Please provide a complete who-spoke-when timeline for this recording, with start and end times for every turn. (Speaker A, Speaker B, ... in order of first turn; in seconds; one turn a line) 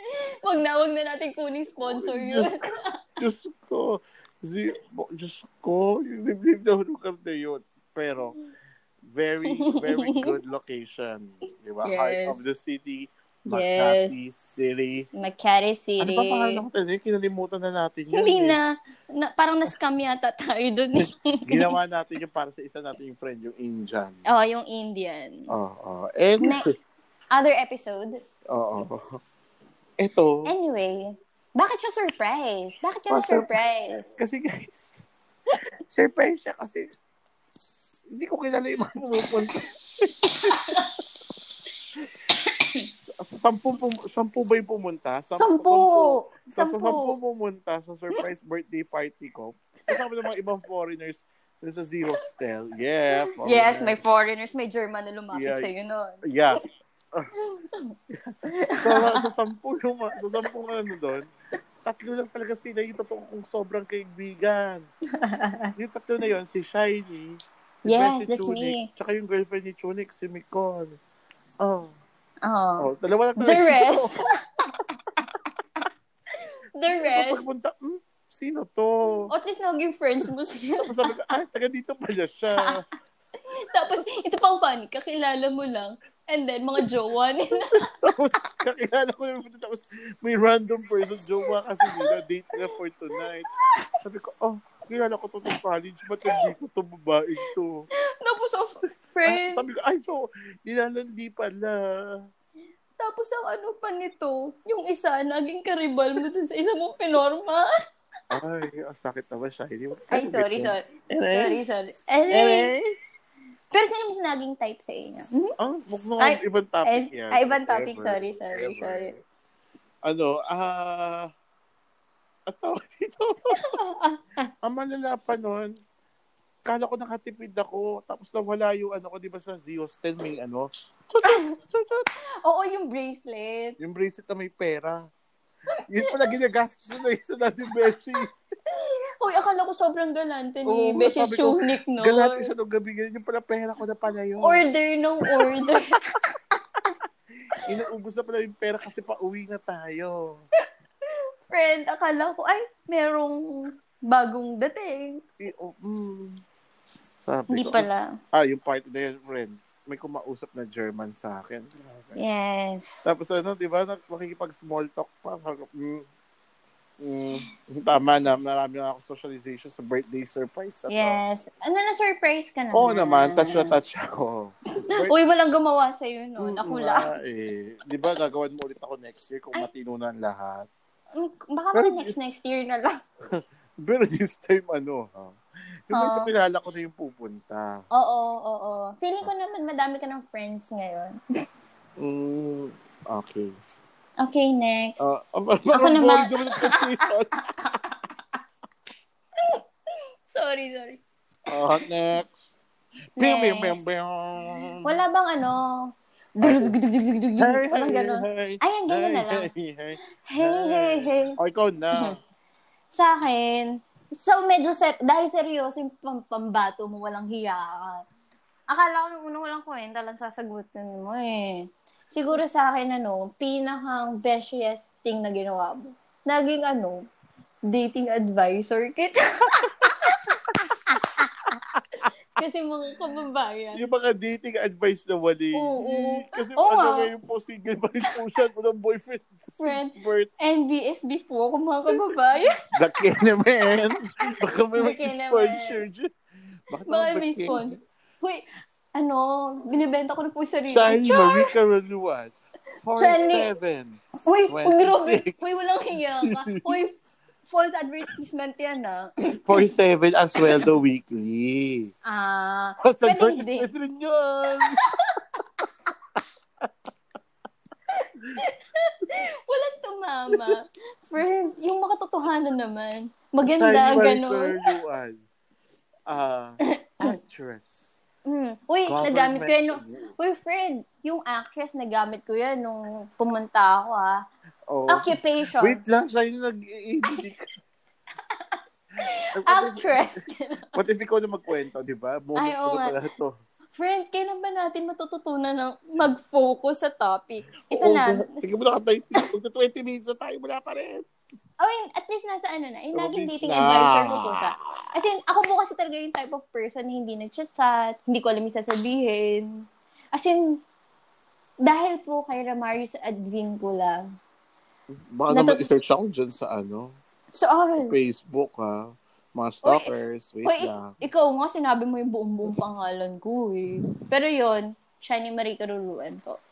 Speaker A: 0.1-2.9
Speaker B: 1.8-8.4
Speaker B: 9.1-15.1
Speaker A: 9.5-10.3
Speaker A: 11.8-12.4
Speaker A: 13.5-14.2
Speaker A: 15.2-16.6
Speaker B: 16.0-18.6
Speaker A: 18.1-21.7
Speaker B: 21.5-24.2
Speaker A: 24.3-25.5
Speaker B: 25.5-26.7
Speaker A: 26.4-26.7
Speaker A: 27.3-28.2
Speaker B: 28.5-29.2
Speaker B: 30.0-30.5
Speaker A: 30.4-34.1
Speaker B: 33.1-33.5
Speaker B: 34.2-35.0
Speaker B: 35.9-36.9
Speaker B: 38.1-40.9
Speaker A: 40.4-40.9
Speaker A: 42.5-42.9
Speaker B: 43.1-54.0
Speaker A: 45.4-47.2
Speaker A: 53.1-56.6
Speaker B: 55.3-55.7
Speaker B: 56.2-56.6
Speaker A: 57.4-57.9
Speaker B: 58.1-61.3
Speaker A: 58.4-59.3
Speaker B: 61.8-64.9
Speaker A: 65.2-65.7
Speaker B: 65.8-71.0
Speaker A: 67.8-68.9
Speaker B: 71.6-71.9
Speaker A: 72.4-74.8
Speaker B: 72.8-74.2
Speaker A: 76.8-77.5
Speaker B: 76.9-79.3
Speaker A: 79.3-81.1
Speaker B: 80.9-82.8
Speaker A: 83.7-87.9
Speaker B: 87.7-93.5
Speaker A: 91.4-94.0
Speaker B: 94.0-97.9
Speaker A: 96.2-96.5
Speaker A: 98.2-99.7
Speaker B: 99.3-102.2
Speaker A: 103.0-107.7
Speaker B: 108.3-111.6
Speaker A: 110.1-112.7
Speaker B: 112.3-112.9
Speaker A: 113.7-115.5
Speaker B: 115.6-119.2
Speaker A: 116.2-119.1
Speaker B: 120.0-121.3
Speaker B: 122.5-123.8
Speaker A: 123.5-124.2
Speaker B: 124.6-125.7
Speaker B: 126.7-132.1
Speaker A: 131.2-131.5
Speaker A: 132.4-133.8
Speaker B: 133.8-135.0
Speaker B: 135.9-138.3
Speaker A: 138.7-142.5
Speaker B: 140.7-144.6
Speaker A: 144.4-146.2
Speaker B: 145.2-145.8
Speaker B: 147.7-150.4
Speaker A: 151.5-155.2
Speaker B: 155.4-156.4
Speaker B: 157.2-162.2
Speaker A: 157.5-158.1
Speaker A: 162.2-163.1
Speaker B: 163.1-166.1
Speaker B: 167.0-171.2
Speaker A: 170.9-173.7
Speaker B: 172.7-175.1
Speaker A: 174.8-177.1
Speaker B: 176.4-180.7
Speaker A: 181.2-183.0
Speaker B: 181.7-182.2
Speaker B: 183.3-185.4
Speaker B: 185.9-187.8
Speaker A: 185.9-186.3
Speaker A: 187.9-191.2
Speaker B: 192.0-193.6
Speaker A: 194.2-195.1
Speaker B: 195.0-197.8
Speaker A: 195.7-198.0
Speaker A: 200.3-201.0
Speaker B: 201.5-202.6
Speaker A: 203.2-203.8
Speaker B: 203.2-205.0
Speaker A: 204.8-209.5
Speaker B: 206.4-206.8
Speaker B: 207.4-212.2
Speaker A: 210.3-211.4
Speaker A: 212.9-218.0
Speaker A: 218.7-227.0
Speaker A: 227.7-230.3
Speaker B: 229.8-230.7
Speaker A: 230.9-231.5
Speaker B: 231.6-232.1
Speaker A: 232.4-233.8
Speaker B: 233.7-240.3
Speaker A: 235.5-237.1
Speaker A: 239.6-242.6
Speaker B: 242.7-246.1
Speaker A: 244.8-245.8
Speaker B: 246.7-247.8
Speaker A: 246.9-251.5
Speaker B: 250.7-255.4
Speaker A: 253.0-253.5
Speaker A: 254.2-256.9
Speaker B: 256.2-256.8
Speaker A: 257.5-259.7
Speaker B: 259.4-261.9
Speaker A: 262.1-263.7
Speaker B: 262.8-264.8
Speaker A: 264.6-265.6
Speaker A: 267.9-274.6
Speaker B: 273.4-275.2
Speaker B: 276.1-278.0
Speaker A: 276.9-277.2
Speaker A: 278.3-284.2
Speaker B: 278.9-280.1
Speaker B: 284.7-287.5
Speaker A: 284.9-285.8
Speaker A: 288.3-290.8
Speaker B: 289.3-290.1
Speaker B: 290.8-293.4
Speaker A: 292.4-293.0
Speaker A: 293.8-298.4
Speaker B: 297.7-301.1
Speaker A: 301.6-309.5
Speaker B: 302.9-304.5
Speaker A: 310.1-310.6
Speaker A: 311.6-314.0
Speaker B: 314.9-317.0
Speaker A: 315.3-315.7
Speaker A: 317.3-318.0
Speaker B: 317.8-321.0
Speaker A: 319.6-319.9
Speaker A: 320.4-326.4